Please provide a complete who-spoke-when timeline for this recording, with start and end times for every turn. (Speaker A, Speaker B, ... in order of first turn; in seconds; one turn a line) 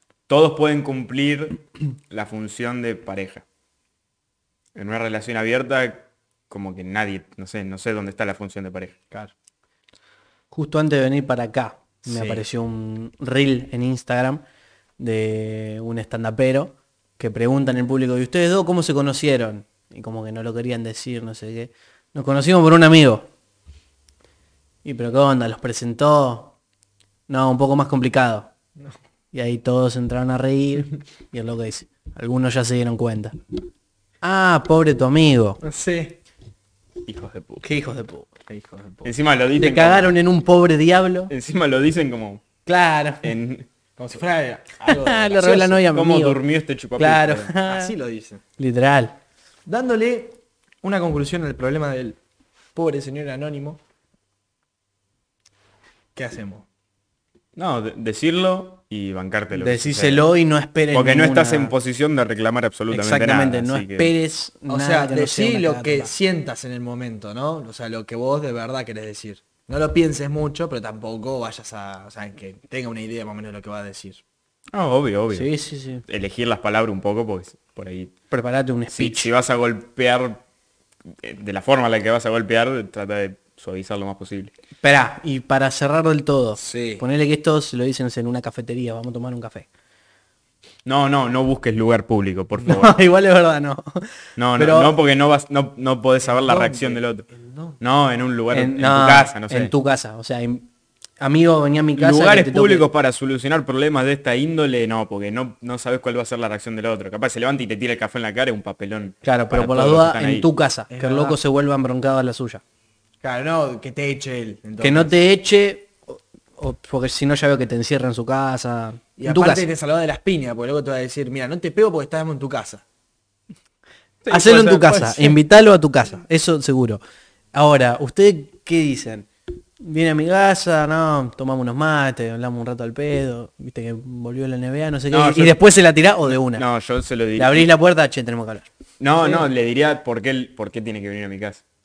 Speaker A: 0.3-3.5
Speaker A: 4.8-9.0
Speaker B: 10.5-14.4
Speaker C: 12.1-12.5
Speaker B: 15.0-23.3
Speaker B: 24.8-26.6
Speaker B: 27.3-28.5
Speaker B: 29.3-33.4
Speaker B: 34.2-35.6
Speaker C: 35.6-36.2
Speaker A: 37.1-37.7
Speaker B: 37.6-38.3
Speaker C: 38.5-39.1
Speaker A: 39.0-40.1
Speaker B: 39.6-41.3
Speaker A: 41.3-42.4
Speaker B: 42.7-43.3
Speaker A: 43.2-43.7
Speaker C: 44.0-45.8
Speaker B: 44.9-46.4
Speaker A: 45.8-47.5
Speaker B: 47.0-48.0
Speaker C: 47.7-48.4
Speaker B: 48.6-49.2
Speaker C: 49.7-52.2
Speaker C: 52.8-53.8
Speaker C: 56.1-56.7
Speaker A: 57.6-60.3
Speaker B: 59.5-61.7
Speaker A: 60.9-64.1
Speaker B: 62.9-66.1
Speaker C: 64.7-74.2
Speaker A: 74.7-75.5
Speaker B: 75.3-76.0
Speaker A: 76.1-78.2
Speaker B: 78.3-79.3
Speaker A: 78.9-80.4
Speaker A: 81.2-84.5
Speaker B: 84.8-89.7
Speaker C: 86.6-87.0
Speaker A: 90.8-93.0
Speaker B: 92.7-94.9
Speaker A: 94.4-97.3
Speaker C: 96.2-97.8
Speaker A: 97.8-99.7
Speaker B: 98.5-100.7
Speaker B: 101.2-102.9
Speaker A: 102.0-110.5
Speaker B: 109.2-112.6
Speaker C: 110.9-111.4
Speaker C: 113.2-115.2
Speaker B: 114.8-119.7
Speaker C: 119.2-122.8
Speaker C: 124.2-125.4
Speaker B: 124.3-127.0
Speaker B: 127.5-129.3
Speaker B: 129.8-136.7
Speaker A: 135.1-137.7
Speaker B: 137.4-138.7
Speaker A: 139.0-141.6
Speaker C: 139.2-139.5